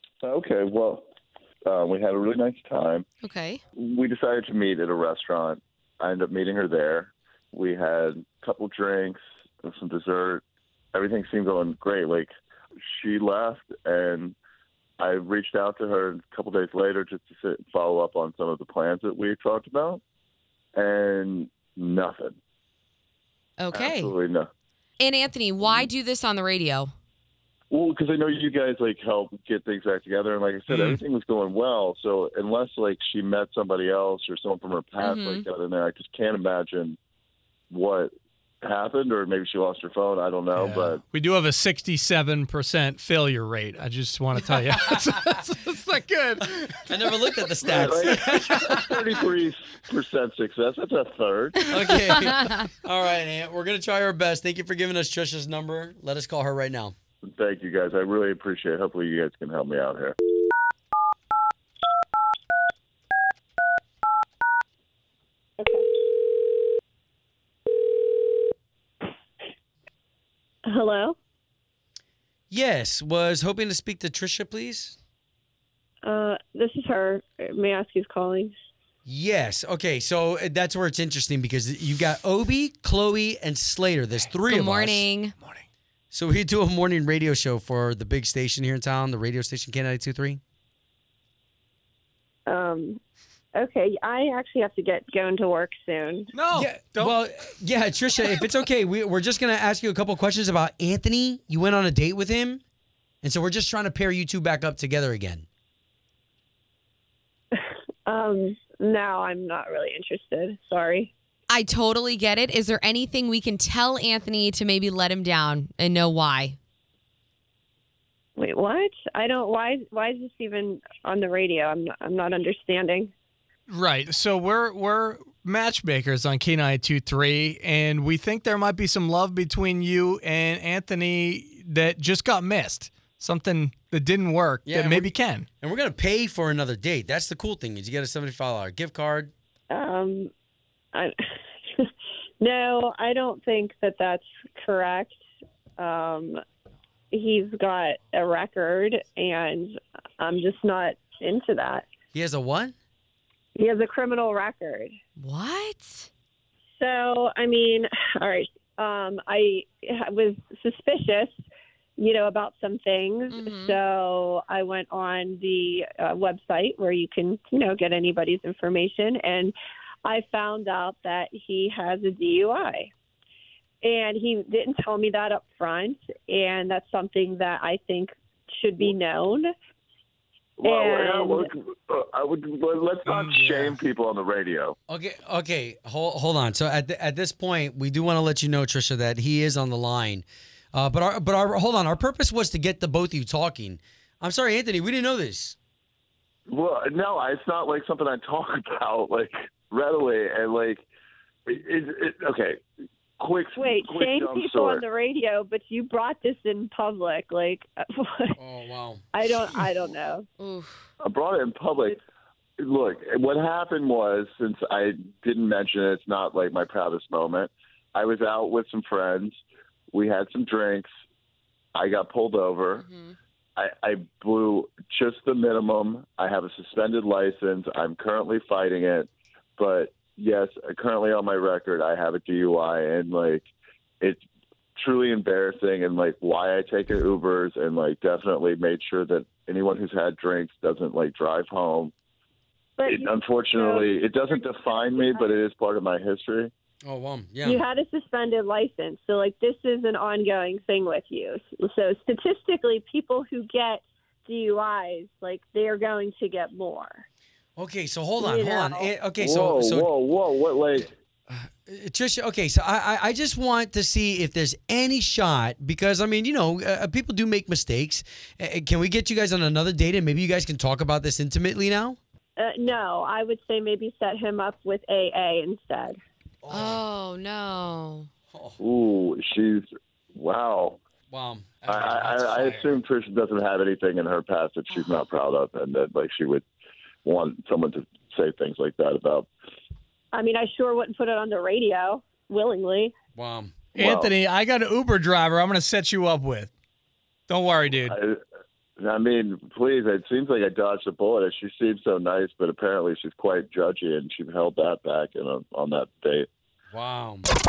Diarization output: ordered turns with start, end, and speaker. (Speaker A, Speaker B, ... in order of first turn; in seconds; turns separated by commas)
Speaker A: 0.2-1.1, Speaker A: 1.6-3.1, Speaker B: 3.2-3.6, Speaker A: 3.8-10.4, Speaker A: 10.9-12.3, Speaker A: 12.9-14.3, Speaker A: 15.0-20.0, Speaker A: 20.8-22.4, Speaker B: 23.6-24.1, Speaker A: 23.7-24.5, Speaker B: 25.0-26.9, Speaker A: 25.6-25.9, Speaker A: 27.7-37.0, Speaker C: 30.7-31.0, Speaker B: 35.0-35.5, Speaker A: 37.7-38.1, Speaker A: 38.6-41.0, Speaker C: 40.6-46.8, Speaker D: 46.8-49.0, Speaker A: 47.6-51.7, Speaker D: 51.7-56.9, Speaker A: 57.3-60.2, Speaker E: 70.7-71.2, Speaker D: 72.5-75.0, Speaker E: 76.0-78.5, Speaker D: 79.1-85.1, Speaker B: 84.5-85.3, Speaker D: 86.1-90.4, Speaker E: 92.5-93.0, Speaker E: 93.6-96.3, Speaker C: 96.3-97.1, Speaker D: 96.5-102.6, Speaker D: 103.2-105.5, Speaker E: 108.1-111.1, Speaker C: 110.5-111.1, Speaker B: 111.5-116.6, Speaker E: 118.4-123.1, Speaker C: 123.7-135.4, Speaker D: 134.7-139.3, Speaker E: 139.7-140.3, Speaker E: 141.7-145.2, Speaker E: 145.8-146.4, Speaker E: 147.1-151.8, Speaker C: 147.8-148.2, Speaker C: 149.0-149.3, Speaker C: 150.8-151.8, Speaker D: 152.1-152.7, Speaker E: 153.6-154.9, Speaker B: 155.2-156.1, Speaker E: 156.8-161.3, Speaker E: 162.0-169.5, Speaker C: 163.2-163.7, Speaker B: 163.3-163.8, Speaker E: 170.1-172.9, Speaker E: 173.8-179.5, Speaker A: 180.6-184.8, Speaker E: 180.7-181.4, Speaker C: 183.1-183.8, Speaker D: 184.9-195.6, Speaker A: 196.5-200.8, Speaker A: 201.5-202.6, Speaker A: 203.2-204.8, Speaker E: 203.6-208.4, Speaker D: 208.4-209.0, Speaker E: 209.1-210.3, Speaker B: 210.4-210.8, Speaker A: 211.0-212.0, Speaker A: 212.6-219.4, Speaker A: 219.9-220.9, Speaker A: 221.8-222.9, Speaker B: 222.8-223.2, Speaker A: 223.6-233.4, Speaker A: 234.8-241.9, Speaker E: 242.8-243.9, Speaker A: 242.9-246.5, Speaker C: 244.1-244.8, Speaker E: 244.8-245.3, Speaker D: 246.8-247.6, Speaker E: 247.4-257.0, Speaker D: 257.6-259.9, Speaker E: 258.2-258.9, Speaker A: 259.2-260.9, Speaker D: 261.3-272.0, Speaker E: 272.4-275.9, Speaker D: 276.4-276.8, Speaker B: 276.5-278.1, Speaker D: 278.3-278.6, Speaker A: 278.6-280.8, Speaker D: 281.1-282.7, Speaker A: 281.7-286.4, Speaker A: 287.0-289.3, Speaker E: 290.1-292.9, Speaker D: 293.1-293.6, Speaker A: 293.8-294.1, Speaker C: 293.8-296.5, Speaker C: 297.3-297.9, Speaker A: 297.8-298.2, Speaker A: 298.8-306.3, Speaker D: 306.7-307.3